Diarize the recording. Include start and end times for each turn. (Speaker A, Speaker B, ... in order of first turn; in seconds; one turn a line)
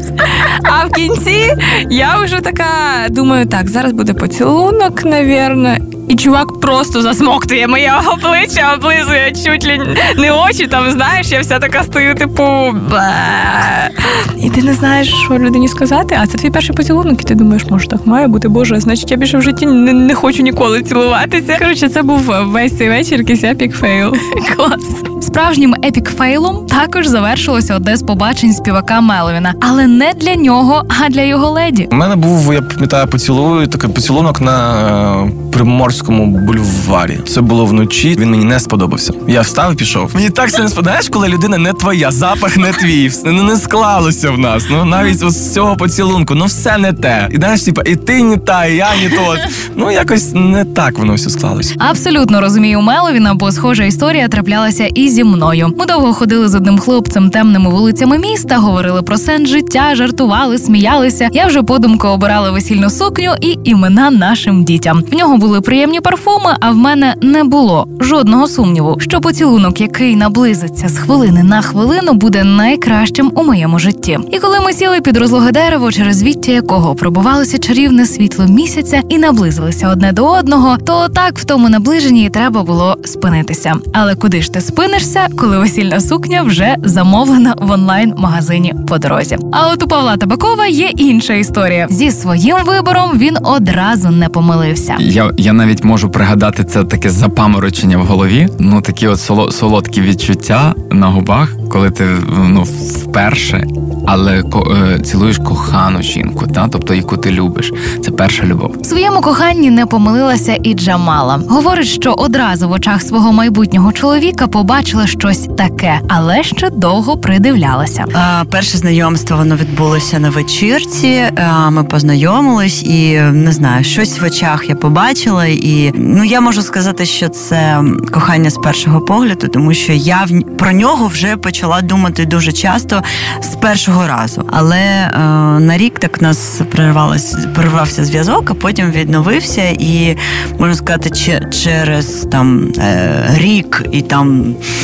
Speaker A: 0.3-25.1
Speaker B: 25.2-31.9
Speaker C: 31.9-51.7
Speaker B: 51.8-95.0
Speaker D: 95.0-108.7
Speaker B: 108.8-118.1
Speaker E: 118.1-144.6